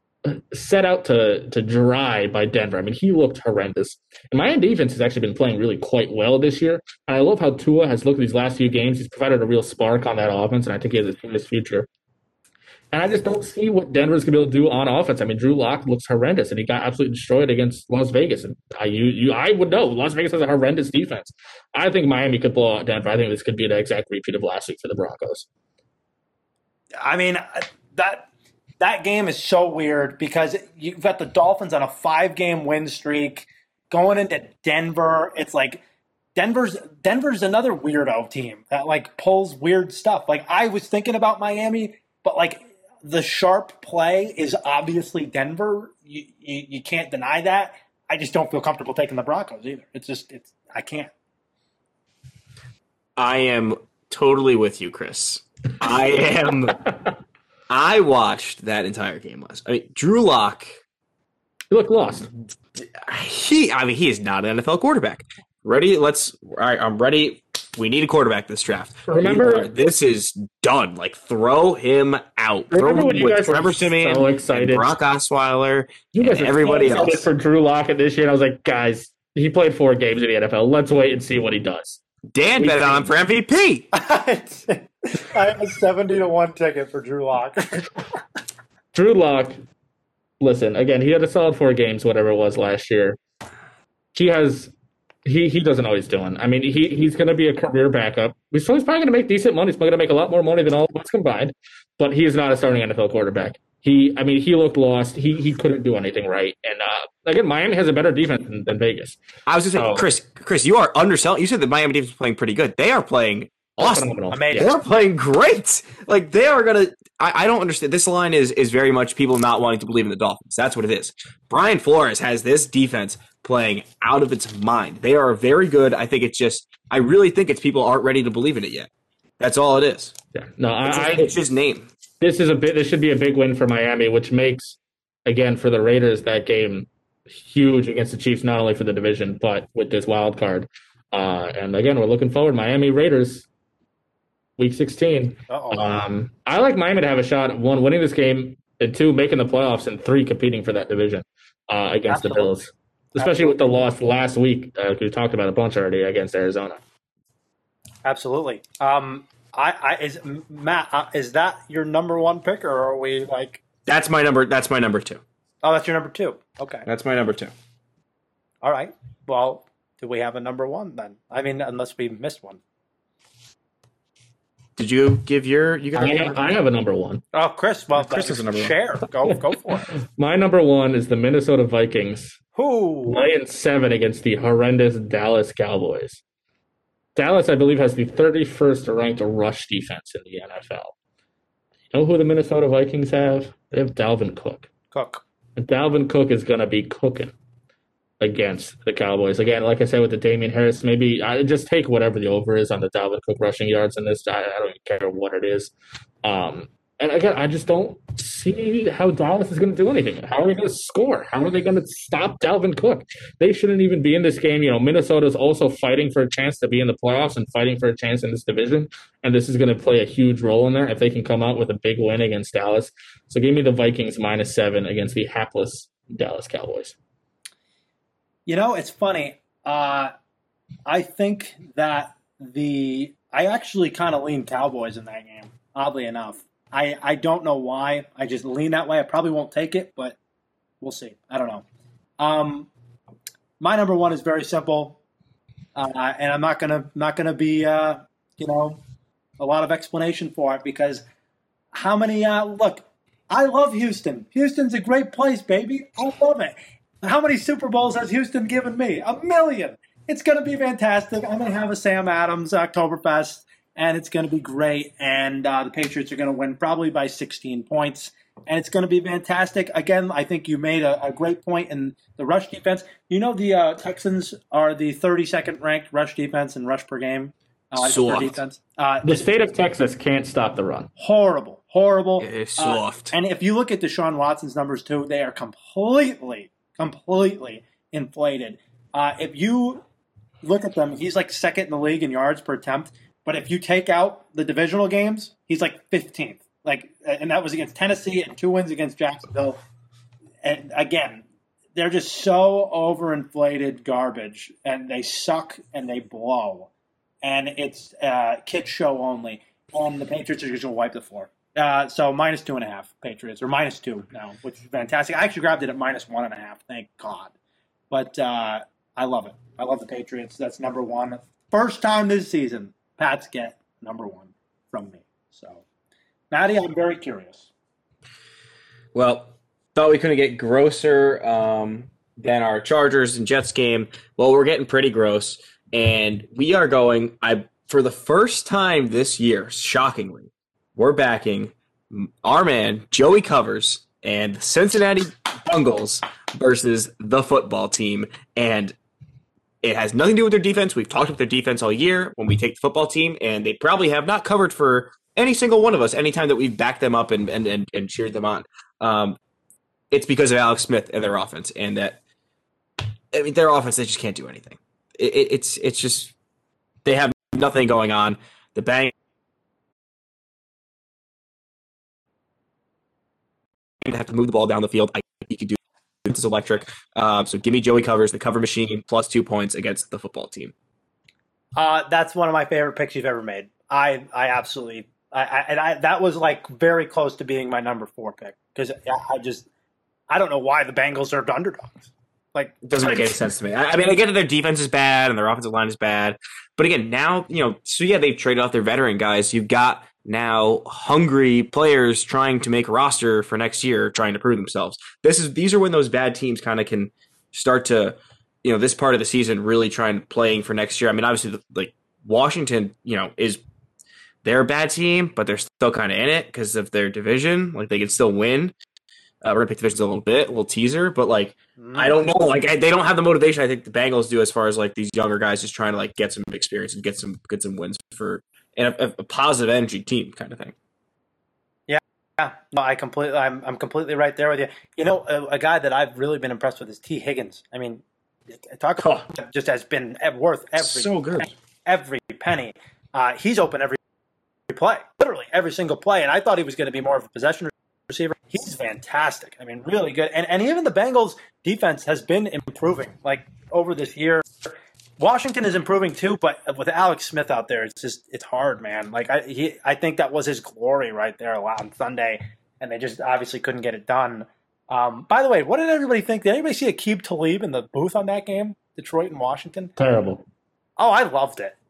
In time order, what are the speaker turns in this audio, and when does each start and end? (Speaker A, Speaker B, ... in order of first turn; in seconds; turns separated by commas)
Speaker A: 0.2-11.9, Speaker A: 12.9-25.5, Speaker B: 27.0-28.3, Speaker B: 28.8-35.8, Speaker B: 36.4-51.1, Speaker C: 53.2-56.8, Speaker C: 57.7-60.7, Speaker A: 61.7-62.3, Speaker C: 62.8-77.3, Speaker A: 69.1-69.7, Speaker A: 72.7-74.9, Speaker A: 76.1-82.0, Speaker C: 82.3-83.9, Speaker A: 82.6-83.0, Speaker B: 83.9-88.0, Speaker A: 88.9-89.6, Speaker A: 90.4-93.2, Speaker A: 94.1-94.7, Speaker A: 95.2-109.2, Speaker C: 109.5-128.9, Speaker A: 109.7-110.1, Speaker A: 113.8-114.7, Speaker B: 114.3-114.8, Speaker C: 129.4-130.2, Speaker A: 130.3-131.3, Speaker C: 130.9-131.9, Speaker A: 132.2-143.5, Speaker A: 144.6-156.8, Speaker B: 145.5-146.0, Speaker B: 152.1-152.5, Speaker B: 153.2-153.6, Speaker B: 158.0-163.6, Speaker C: 163.9-165.2, Speaker B: 165.6-166.9, Speaker C: 166.8-167.5, Speaker B: 168.6-172.6, Speaker C: 174.8-176.4, Speaker A: 176.0-177.2, Speaker B: 177.3-179.9, Speaker C: 177.9-178.7, Speaker A: 179.9-182.4, Speaker B: 182.6-183.2, Speaker A: 183.1-186.2, Speaker A: 187.2-190.9, Speaker A: 191.9-194.7, Speaker B: 194.9-195.2, Speaker A: 195.6-197.3, Speaker A: 198.2-205.7, Speaker A: 206.2-227.0, Speaker B: 228.5-230.1, Speaker B: 230.9-240.2, Speaker B: 240.8-241.6, Speaker B: 242.2-242.7, Speaker B: 243.6-245.0, Speaker B: 245.8-248.8, Speaker B: 249.4-251.0, Speaker B: 251.7-279.3, Speaker C: 277.8-278.4, Speaker A: 279.0-280.9, Speaker B: 281.0-289.8, Speaker C: 282.2-283.1, Speaker B: 290.4-299.6, Speaker B: 300.4-301.2, Speaker B: 301.8-306.7, Speaker B: 307.2-317.3, Speaker B: 317.9-325.6, Speaker B: 326.3-327.5, Speaker C: 328.9-348.8, Speaker C: 349.6-359.2, Speaker C: 359.9-362.0, Speaker C: 363.1-366.1, Speaker C: 366.9-368.9, Speaker C: 373.8-380.5, Speaker B: 381.6-389.4, Speaker B: 390.1-393.2, Speaker C: 392.6-413.4, Speaker C: 414.2-418.5, Speaker C: 419.2-430.6, Speaker B: 421.6-422.0, Speaker B: 431.7-443.8, Speaker C: 438.8-439.1, Speaker C: 440.6-441.3, Speaker B: 444.5-469.7, Speaker A: 469.8-470.2, Speaker B: 470.8-471.6